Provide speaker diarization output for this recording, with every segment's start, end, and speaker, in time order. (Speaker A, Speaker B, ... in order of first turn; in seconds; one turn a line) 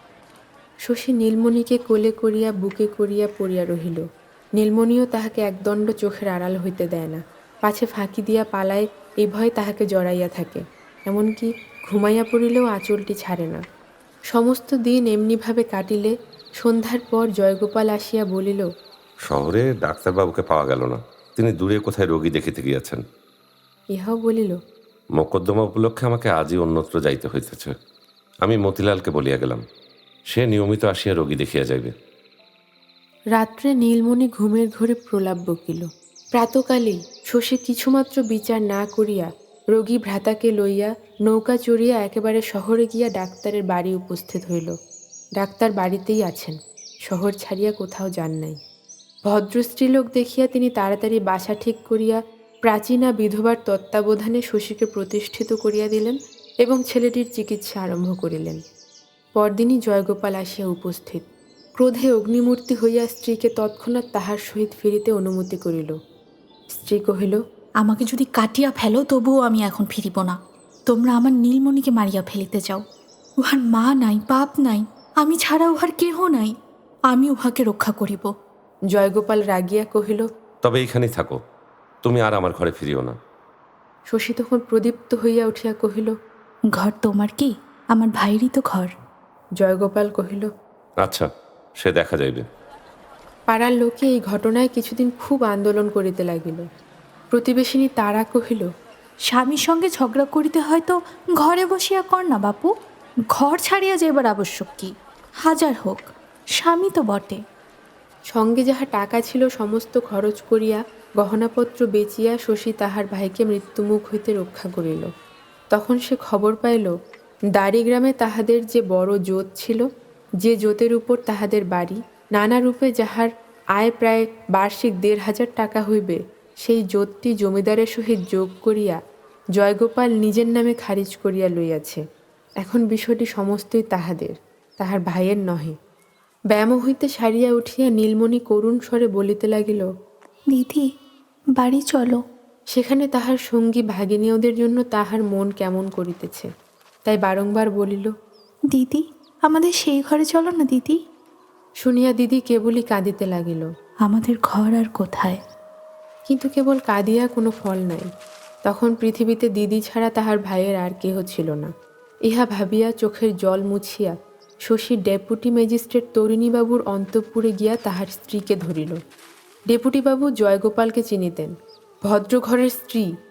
Speaker A: 0.9-4.0
Speaker A: 4.6-13.6
Speaker A: 14.3-18.7
Speaker B: 19.3-23.0
Speaker A: 23.9-24.6
Speaker B: 25.2-27.7
Speaker B: 28.4-29.6
Speaker B: 30.3-31.9
Speaker A: 33.4-44.8
Speaker A: 45.4-48.6
Speaker A: 49.3-58.6
Speaker A: 59.4-61.2
Speaker A: 61.8-66.0
Speaker A: 66.7-67.4
Speaker C: 67.8-70.4
Speaker C: 70.9-72.8
Speaker C: 73.4-76.5
Speaker C: 77.1-78.3
Speaker A: 78.9-80.3
Speaker B: 80.6-81.4
Speaker B: 82.0-83.2
Speaker A: 84.1-86.1
Speaker C: 86.8-88.9
Speaker A: 89.6-90.5
Speaker B: 91.0-91.3
Speaker B: 91.8-92.4
Speaker A: 93.5-96.6
Speaker A: 97.3-98.7
Speaker C: 99.3-102.7
Speaker C: 103.3-104.9
Speaker C: 105.4-106.1
Speaker C: 106.6-107.4
Speaker A: 108.3-115.1
Speaker A: 115.7-116.9
Speaker A: 117.5-119.8
Speaker A: 120.4-129.0
Speaker A: 129.6-132.0
Speaker A: 132.6-135.8
Speaker A: 136.5-139.9
Speaker C: 140.5-140.9
Speaker C: 141.6-142.2
Speaker A: 142.7-146.5
Speaker A: 147.1-148.1
Speaker C: 148.7-151.0
Speaker A: 151.8-153.7
Speaker C: 154.1-155.4
Speaker A: 156.3-158.1
Speaker A: 158.7-161.7
Speaker A: 162.3-164.2
Speaker A: 164.7-169.0
Speaker A: 169.7-171.5
Speaker A: 172.1-173.1